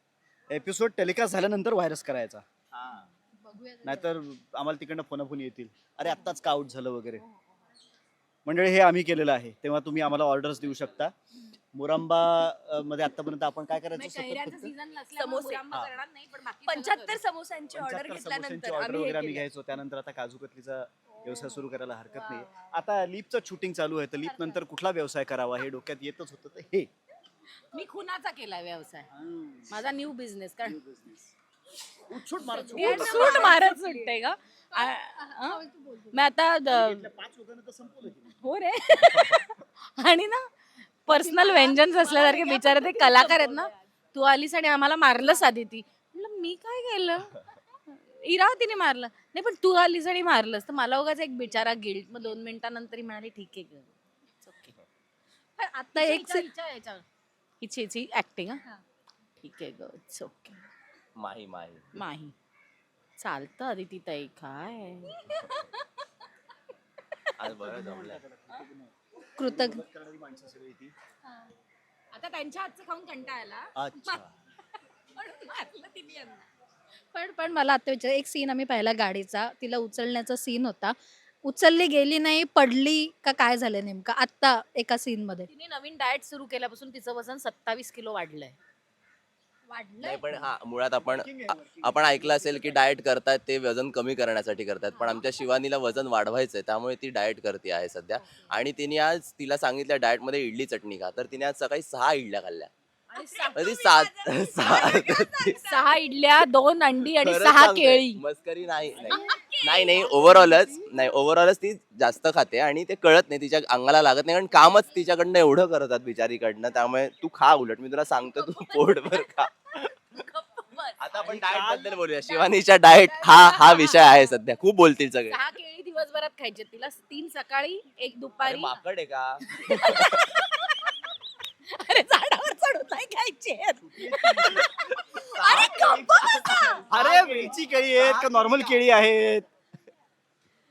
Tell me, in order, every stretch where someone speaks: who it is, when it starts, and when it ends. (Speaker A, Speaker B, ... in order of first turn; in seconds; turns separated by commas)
Speaker A: 0.5-2.5, Speaker B: 2.7-3.0, Speaker C: 2.9-4.0, Speaker A: 3.8-7.2, Speaker C: 7.2-7.4, Speaker A: 8.4-11.1, Speaker A: 11.7-14.7, Speaker C: 13.9-17.2, Speaker D: 15.1-15.6, Speaker D: 16.6-19.4, Speaker A: 17.7-26.9, Speaker C: 21.2-22.4, Speaker C: 24.2-24.6, Speaker C: 27.7-29.1, Speaker A: 29.1-29.9, Speaker C: 29.7-30.8, Speaker A: 30.6-31.3, Speaker A: 32.1-33.5, Speaker C: 32.7-37.1, Speaker E: 32.8-33.3, Speaker D: 32.9-34.1, Speaker E: 35.2-36.2, Speaker A: 36.7-38.4, Speaker C: 38.4-40.5, Speaker C: 41.0-47.4, Speaker E: 41.1-43.7, Speaker C: 48.2-53.9, Speaker C: 54.4-54.7, Speaker E: 55.6-56.5, Speaker C: 55.9-57.0, Speaker C: 57.6-58.6, Speaker C: 59.4-60.6, Speaker B: 61.1-61.9, Speaker C: 61.9-62.3, Speaker C: 63.2-65.7, Speaker B: 67.4-68.2, Speaker A: 67.4-70.9, Speaker E: 69.4-69.8, Speaker C: 72.1-74.2, Speaker A: 73.8-74.3, Speaker C: 75.1-76.5, Speaker E: 77.1-85.5, Speaker C: 85.5-88.5, Speaker E: 89.7-90.4, Speaker B: 90.0-102.7, Speaker A: 91.0-92.8, Speaker C: 94.9-95.3, Speaker D: 103.1-106.0, Speaker C: 103.2-103.7, Speaker B: 103.5-105.6, Speaker C: 105.6-108.2, Speaker B: 107.2-119.9, Speaker D: 109.0-110.0, Speaker A: 110.3-110.7, Speaker C: 118.3-119.4, Speaker C: 120.1-121.0, Speaker B: 121.0-125.4, Speaker A: 121.1-122.0, Speaker C: 122.3-124.3, Speaker C: 125.3-128.8, Speaker B: 128.4-130.1, Speaker C: 129.5-130.9, Speaker C: 131.7-136.9, Speaker A: 133.8-134.7, Speaker B: 135.1-138.8, Speaker A: 136.9-139.4